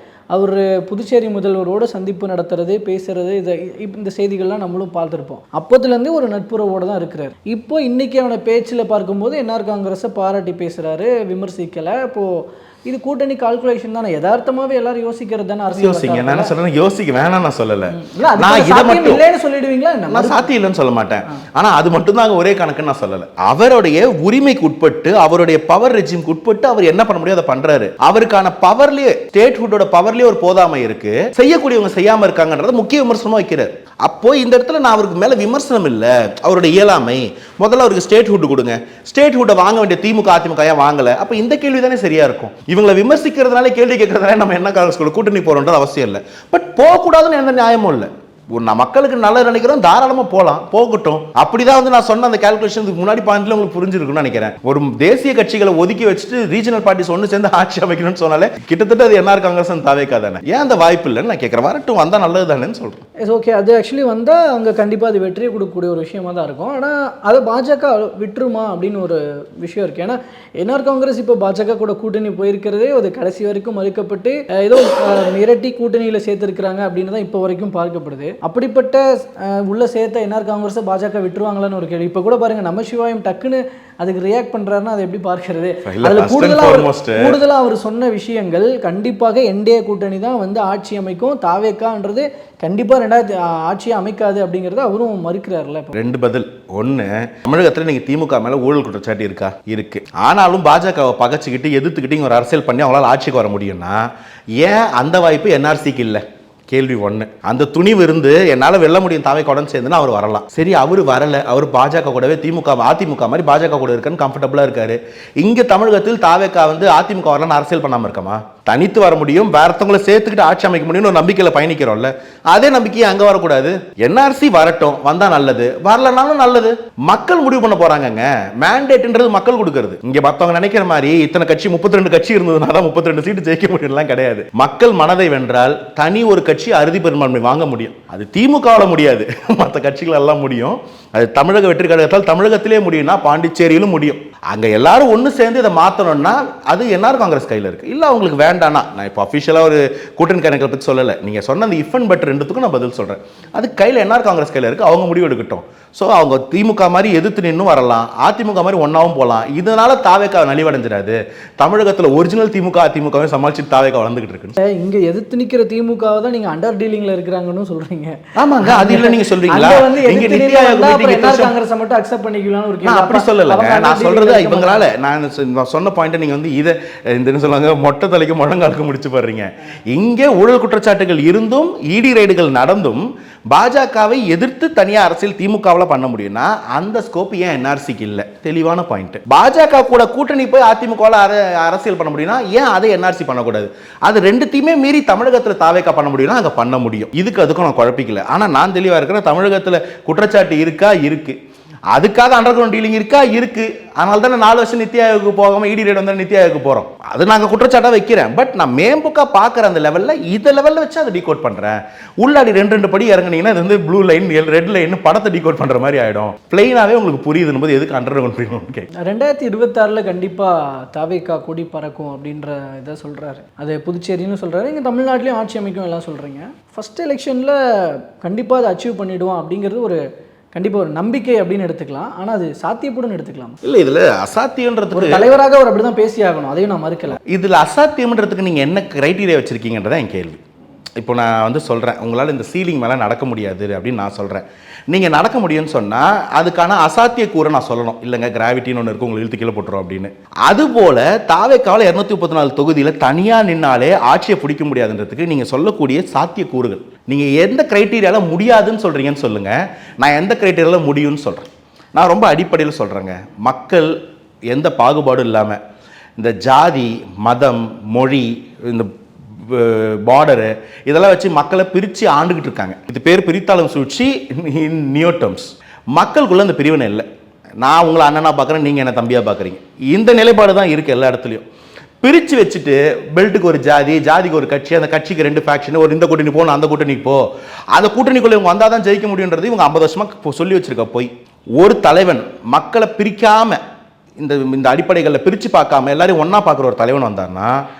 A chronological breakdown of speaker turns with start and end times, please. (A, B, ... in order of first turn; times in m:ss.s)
0:00.3-0:16.5 A
0:15.7-0:19.2 B
0:17.9-0:20.5 A
0:20.1-1:03.0 B
1:03.2-1:36.0 A
1:25.8-1:27.4 B
1:35.9-2:44.6 B
2:44.6-2:54.9 A
2:48.4-2:51.5 B
2:52.8-3:21.4 B
3:21.9-3:38.9 B
3:39.0-3:50.0 A
3:50.5-3:53.6 A
3:53.6-3:55.2 B
3:54.9-3:57.2 A
3:57.2-4:00.4 B
4:01.0-4:24.0 B
4:24.5-4:25.6 B
4:26.2-4:37.0 B
4:37.6-4:41.4 B
4:42.0-4:53.6 B
4:54.2-4:57.6 B